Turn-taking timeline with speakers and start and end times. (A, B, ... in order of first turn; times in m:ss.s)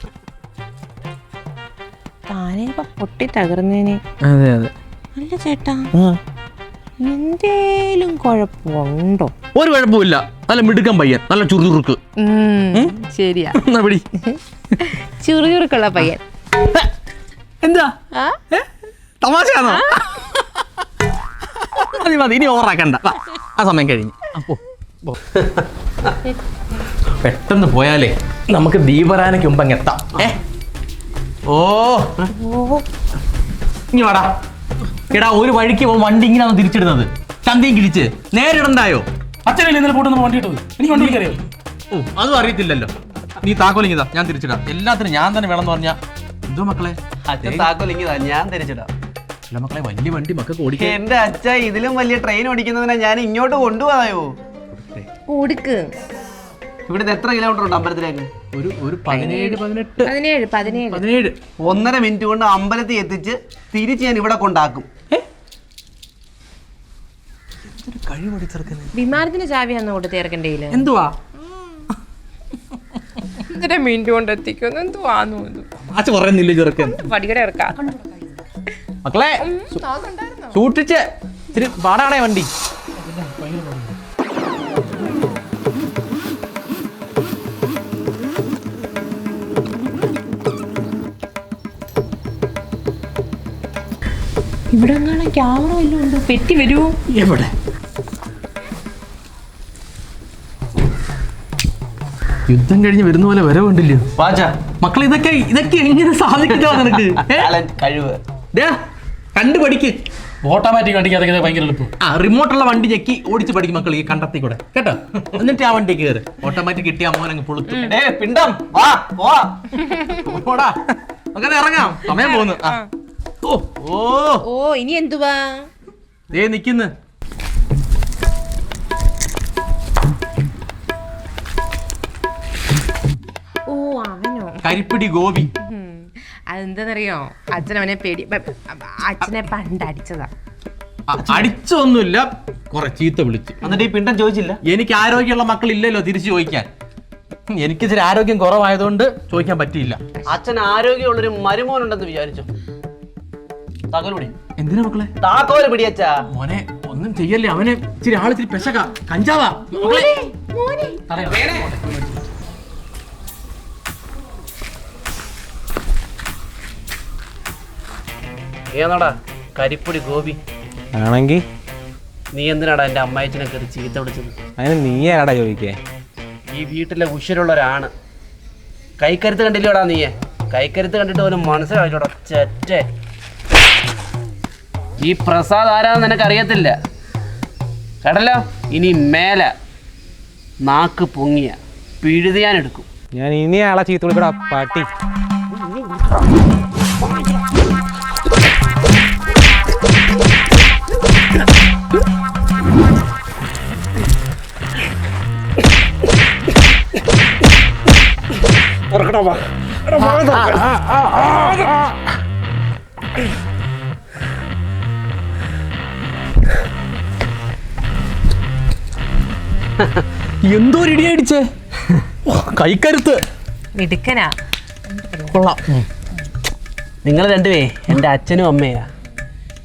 0:02.3-0:04.0 A
0:04.2-0:04.7 B
0:05.2-0:05.9 A
0:05.9-0:06.2 B
0:07.0-0:09.3 A
0:09.6-0:12.0 B
0:12.2-0:13.6 A
0:13.5-0:14.1 B
0:14.2-0:16.2 A
0:18.1-0:18.4 A
0:19.2-0:20.6 B
0:19.7-0:20.0 A
0:21.6-0:25.2 B
0:27.2-0:30.4 B
0:31.5-0:32.3 B
0:32.4-0:32.8 A
0:33.9-0:34.3 B
0:35.1-0:39.1 B
0:39.5-0:41.4 C
0:40.9-0:41.4 B
0:41.9-0:47.7 B
0:47.3-0:48.9 D
0:49.5-0:51.0 B
0:50.8-0:54.3 D
0:54.7-0:55.1 B
0:55.3-0:55.9 A
0:56.9-0:58.3 D
0:58.5-1:00.1 B
0:59.1-1:01.1 A
1:00.9-1:01.4 B
1:01.6-1:04.9 D
1:07.6-1:09.0 B
1:08.9-1:10.8 A
1:10.7-1:11.2 B
1:13.4-1:15.7 A
1:15.9-1:17.0 B
1:16.9-1:18.1 A
1:19.0-1:19.8 B
1:19.4-1:20.6 A
1:20.5-1:22.5 B
1:23.0-1:23.9 C
1:34.7-1:37.0 A
1:37.1-1:37.5 B
1:42.5-1:44.1 B
1:44.2-1:44.5 D
1:44.8-1:47.5 B
1:46.7-1:48.2 D
1:49.4-1:50.0 B
1:50.4-1:51.9 C
1:52.0-1:57.9 B
1:57.8-1:59.7 D
1:59.9-2:00.2 A
2:00.1-2:02.8 B
2:02.1-2:02.9 A
2:03.4-2:04.4 B
2:04.4-2:05.7 A
2:06.3-2:06.9 B
2:13.7-2:14.6 A
2:14.6-2:15.5 B
2:15.6-2:20.3 A
2:21.1-2:23.6 B
2:23.6-2:24.6 D
2:24.6-2:26.7 B
2:27.5-2:30.0 B
2:30.3-2:32.5 D
2:33.9-2:34.4 D
2:34.6-2:35.1 B
2:35.2-2:36.2 D
2:36.3-2:40.1 B
2:39.8-2:41.0 A
2:41.1-2:42.2 C
2:41.3-2:41.7 D
2:48.7-2:50.4 D
2:50.9-2:51.4 E
2:52.3-2:54.4 D
2:54.6-2:55.8 E
2:56.5-2:57.9 D
2:59.0-3:02.9 D
3:05.0-3:06.8 D
3:08.0-3:09.5 D
3:10.6-3:12.9 D
3:13.1-3:14.9 E
3:15.5-3:16.1 D
3:30.0-3:30.6 B
3:30.2-3:30.5 D
3:39.8-3:40.0 D
3:40.5-3:41.4 B
3:42.3-3:43.2 B
3:43.8-3:44.3 A
3:44.9-3:45.3 A
3:45.3-3:45.8 B
3:47.0-3:48.9 D